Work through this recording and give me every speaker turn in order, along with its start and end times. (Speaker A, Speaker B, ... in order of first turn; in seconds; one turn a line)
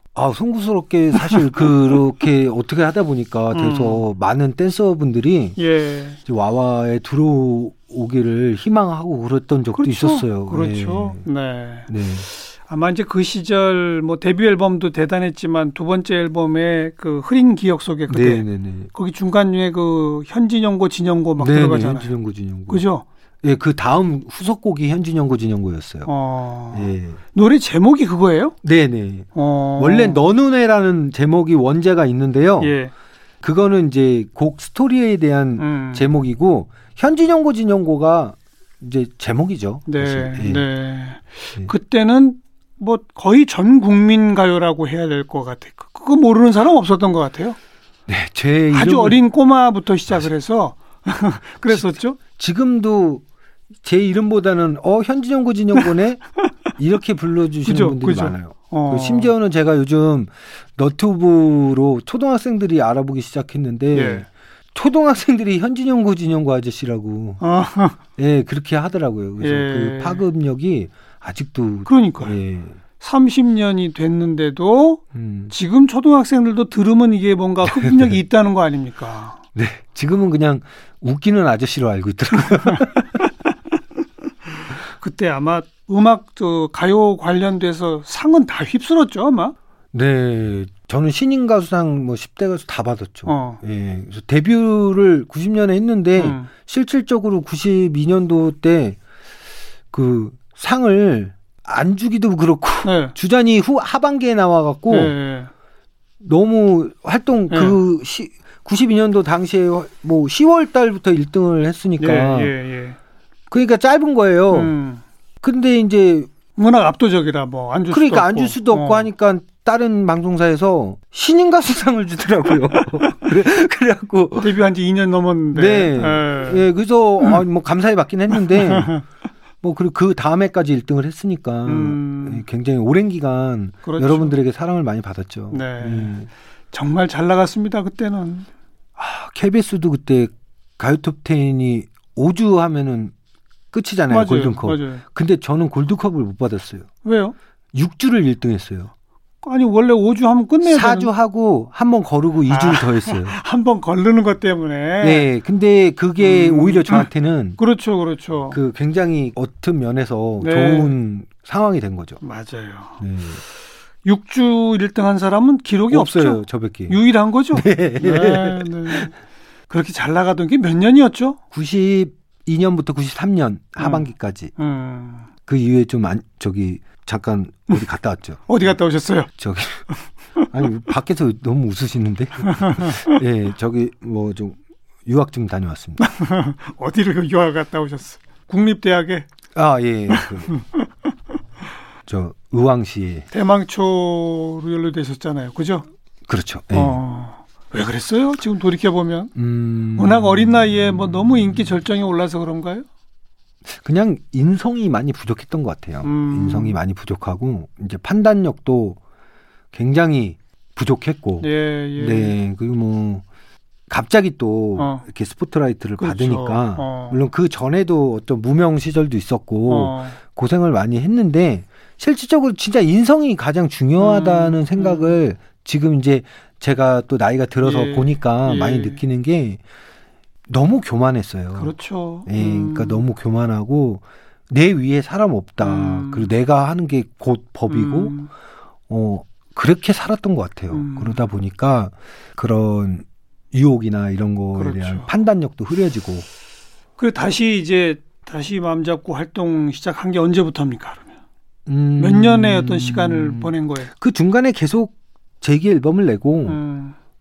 Speaker A: 0.1-5.6
Speaker B: 1.1-1.7
Speaker B: 3.5-4.0
Speaker B: 5.6-6.2
Speaker A: 6.2-11.2
Speaker B: 9.8-22.1
Speaker A: 11.9-12.3
Speaker A: 18.1-18.9
Speaker A: 21.4-22.8
Speaker B: 22.7-23.1
Speaker A: 23.4-26.1
Speaker B: 26.1-28.6
Speaker A: 26.7-27.2
Speaker A: 28.6-32.8
Speaker B: 29.3-30.2
Speaker B: 32.6-32.9
Speaker A: 33.4-40.6
Speaker B: 35.6-36.1
Speaker B: 39.9-47.6
Speaker A: 48.1-49.2
Speaker B: 48.7-52.2
Speaker A: 51.7-53.2
Speaker A: 53.8-56.2
Speaker A: 56.8-67.4
Speaker B: 57.6-59.3
Speaker B: 63.9-64.3
Speaker B: 67.4-68.0
Speaker A: 68.2-72.8
Speaker B: 69.4-70.2
Speaker B: 71.9-72.4
Speaker B: 73.0-79.4
Speaker A: 75.1-75.5
Speaker A: 77.7-78.2
Speaker A: 79.5-83.0
Speaker B: 82.5-82.9
Speaker B: 84.6-89.5
Speaker A: 89.9-99.0
Speaker B: 93.3-93.6
Speaker B: 96.2-96.5
Speaker A: 99.9-105.1
Speaker B: 102.8-103.1
Speaker B: 104.9-105.5
Speaker A: 106.2-112.5
Speaker B: 107.5-107.8
Speaker B: 112.0-113.0
Speaker A: 113.5-114.8
Speaker B: 114.5-115.0
Speaker A: 115.4-116.3
Speaker B: 116.6-119.1
Speaker A: 117.9-124.6
Speaker B: 122.8-123.2
Speaker B: 124.4-126.7
Speaker A: 125.5-128.9
Speaker B: 128.4-129.0
Speaker A: 129.6-136.3
Speaker B: 131.7-132.4
Speaker B: 133.8-134.4
Speaker B: 135.5-136.2
Speaker B: 136.7-138.5
Speaker A: 139.0-143.1
Speaker A: 143.7-146.9
Speaker B: 144.1-145.0
Speaker B: 147.0-147.3
Speaker A: 147.7-148.9
Speaker B: 149.4-151.1
Speaker A: 150.6-153.4
Speaker B: 152.5-155.3
Speaker A: 155.0-157.6
Speaker B: 156.2-158.6
Speaker A: 158.5-162.2
Speaker B: 160.4-160.9
Speaker B: 162.2-163.0
Speaker A: 163.0-163.4
Speaker B: 164.0-169.1
Speaker A: 165.9-167.0
Speaker A: 167.5-169.1
Speaker B: 169.7-171.4
Speaker A: 171.5-174.5
Speaker B: 173.8-175.3
Speaker A: 175.5-178.7
Speaker B: 178.5-179.3
Speaker A: 179.4-179.8
Speaker A: 180.5-186.0
Speaker B: 182.7-183.1
Speaker B: 186.0-189.3
Speaker A: 189.5-190.6
Speaker B: 190.1-190.6
Speaker A: 192.1-193.3
Speaker B: 193.3-195.9
Speaker A: 196.3-197.0
Speaker B: 196.7-199.3
Speaker A: 199.3-200.8
Speaker B: 199.9-202.9
Speaker A: 203.7-209.0
Speaker B: 206.0-206.8
Speaker A: 209.7-213.2
Speaker B: 211.4-212.4
Speaker A: 213.9-229.6
Speaker B: 214.8-215.1
Speaker B: 216.0-217.2
Speaker B: 219.7-220.2
Speaker B: 224.0-225.2
Speaker B: 227.6-229.0
Speaker A: 230.5-231.7
Speaker B: 231.6-233.0
Speaker A: 232.3-238.2
Speaker B: 235.6-236.3
Speaker B: 237.7-238.3
Speaker A: 238.9-246.3
Speaker B: 240.7-241.3
Speaker B: 244.6-245.1
Speaker B: 247.0-251.1
Speaker A: 251.7-256.6
Speaker B: 252.0-253.9
Speaker B: 256.5-256.9